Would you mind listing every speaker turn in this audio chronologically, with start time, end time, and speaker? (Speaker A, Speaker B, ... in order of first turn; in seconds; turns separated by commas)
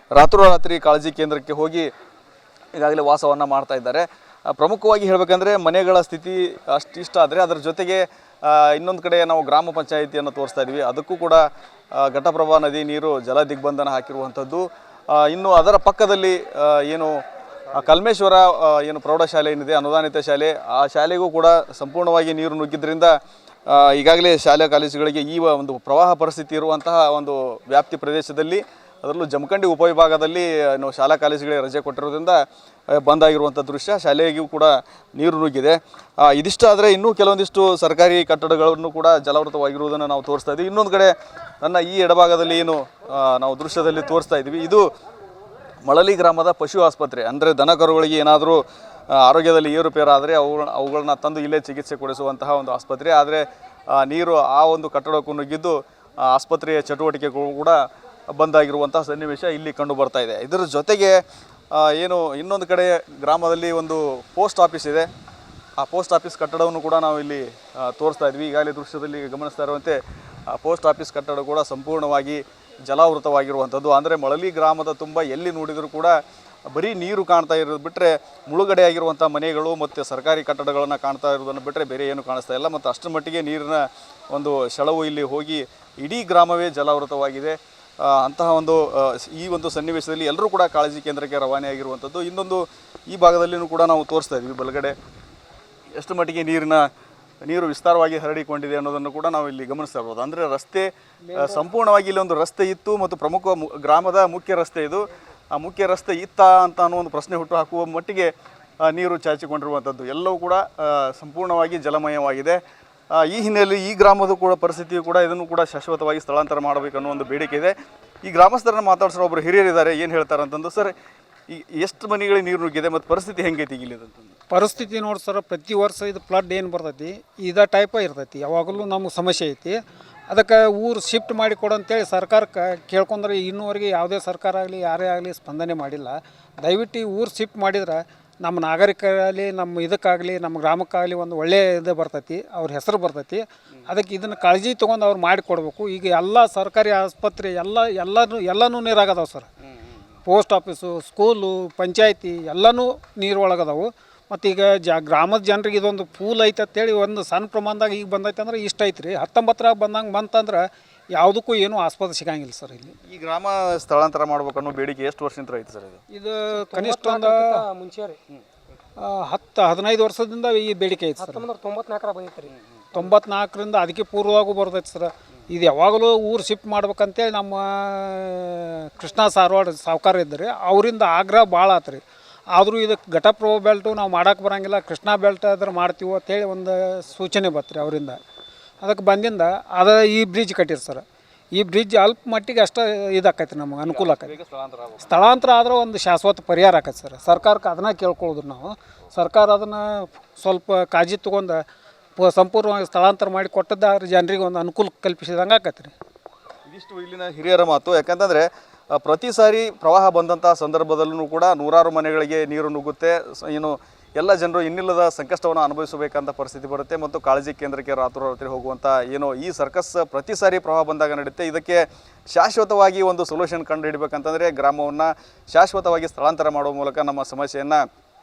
Speaker A: 0.1-1.9, Speaker A: 2.7-17.2, Speaker A: 17.7-32.4, Speaker A: 32.9-44.9, Speaker A: 45.9-57.8, Speaker A: 58.3-61.2, Speaker A: 61.7-65.1, Speaker A: 65.8-76.2, Speaker A: 76.7-95.0, Speaker A: 96.0-96.9, Speaker A: 97.4-108.3, Speaker A: 108.8-112.6, Speaker A: 113.1-117.7, Speaker A: 118.2-120.9, Speaker A: 121.5-124.3, Speaker B: 124.5-149.5, Speaker B: 150.3-160.6, Speaker B: 161.2-162.9, Speaker A: 163.0-166.0, Speaker B: 166.1-167.6, Speaker C: 166.5-168.2, Speaker B: 169.0-171.5, Speaker C: 171.2-173.0, Speaker B: 172.9-182.0, Speaker B: 182.6-188.2, Speaker B: 188.8-191.0, Speaker B: 191.6-194.3, Speaker A: 193.9-195.2, Speaker B: 195.0-201.6, Speaker B: 202.2-205.9, Speaker A: 206.7-227.8